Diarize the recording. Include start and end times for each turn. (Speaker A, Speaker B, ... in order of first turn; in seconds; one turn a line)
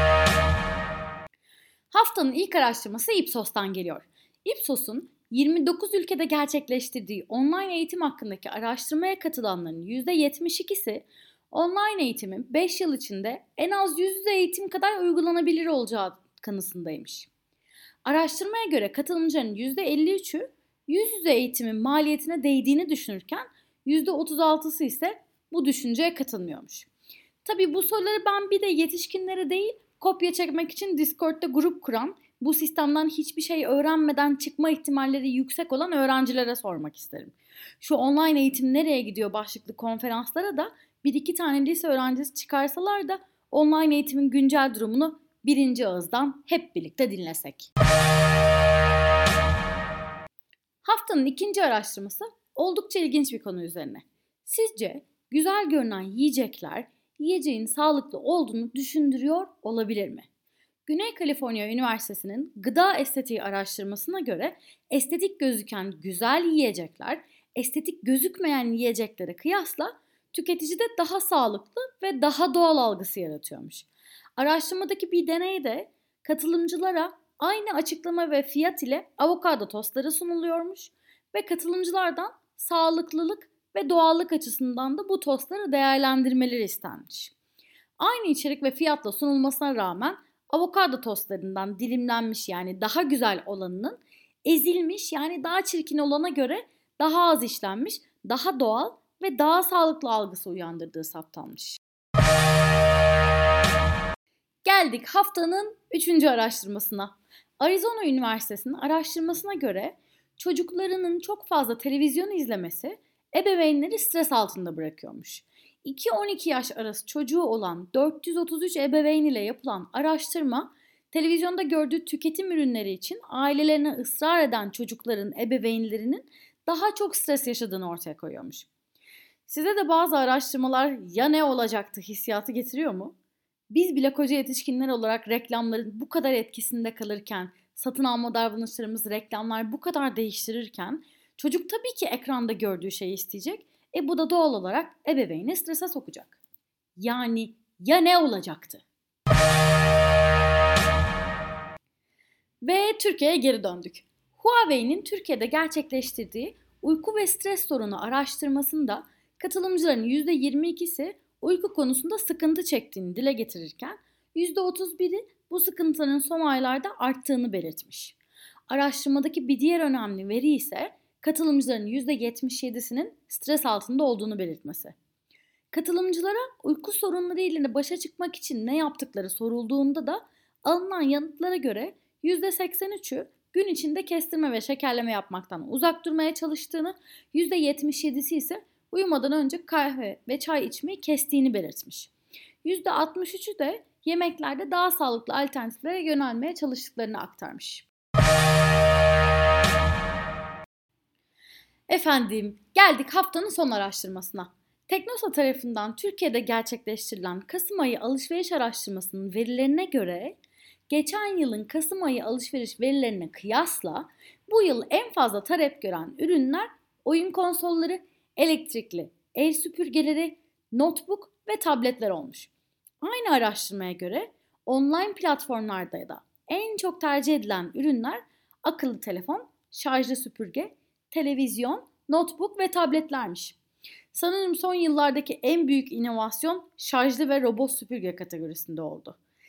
Speaker A: 1.9-17.3
Speaker A: 18.1-26.9
Speaker A: 27.4-47.7
Speaker A: 50.8-60.3
Speaker A: 60.9-87.3
Speaker A: 88.0-101.8
Speaker A: 104.6-128.7
Speaker A: 129.5-133.2
Speaker A: 133.7-146.4
Speaker A: 147.0-148.8
Speaker A: 152.6-168.2
Speaker A: 168.7-174.9
Speaker A: 175.7-192.1
Speaker A: 192.6-197.9
Speaker A: 201.9-210.4
Speaker A: 210.9-233.6
Speaker A: 234.1-239.2